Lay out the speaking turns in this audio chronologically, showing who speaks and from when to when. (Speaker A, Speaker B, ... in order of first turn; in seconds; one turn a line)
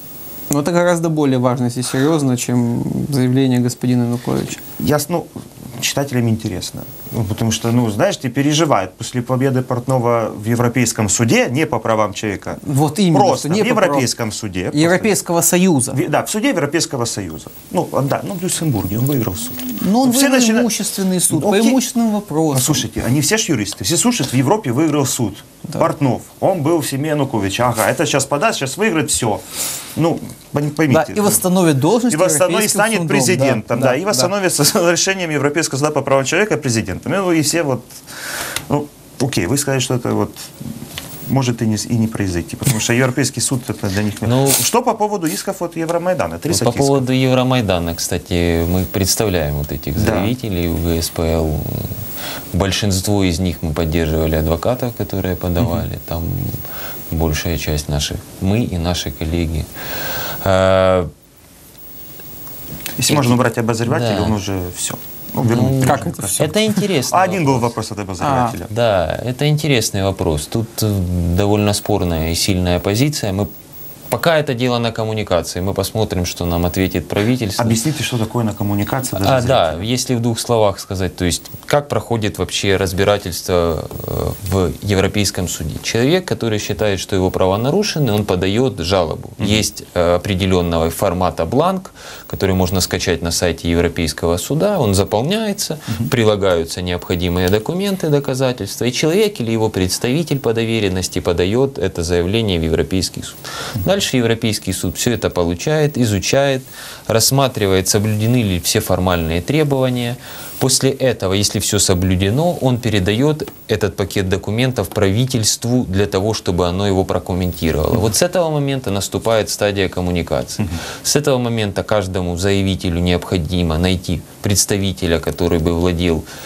Speaker A: 0.5-4.6
Speaker B: 4.8-15.1
Speaker A: 12.6-14.1
Speaker A: 14.7-16.0
Speaker B: 15.9-20.7
Speaker A: 19.7-22.8
Speaker B: 21.3-21.8
Speaker B: 22.5-29.4
Speaker B: 29.9-31.4
Speaker A: 30.9-34.3
Speaker B: 32.1-38.0
Speaker B: 38.7-40.5
Speaker B: 41.2-47.0
Speaker C: 44.2-44.6
Speaker C: 46.5-52.0
Speaker B: 50.0-50.3
Speaker C: 52.5-59.7
Speaker C: 60.4-61.1
Speaker B: 63.0-66.5
Speaker C: 63.1-64.4
Speaker C: 65.5-67.7
Speaker A: 65.8-66.6
Speaker B: 67.1-68.7
Speaker A: 68.2-68.6
Speaker C: 68.7-73.5
Speaker C: 74.1-77.8
Speaker B: 77.6-79.8
Speaker C: 79.2-126.2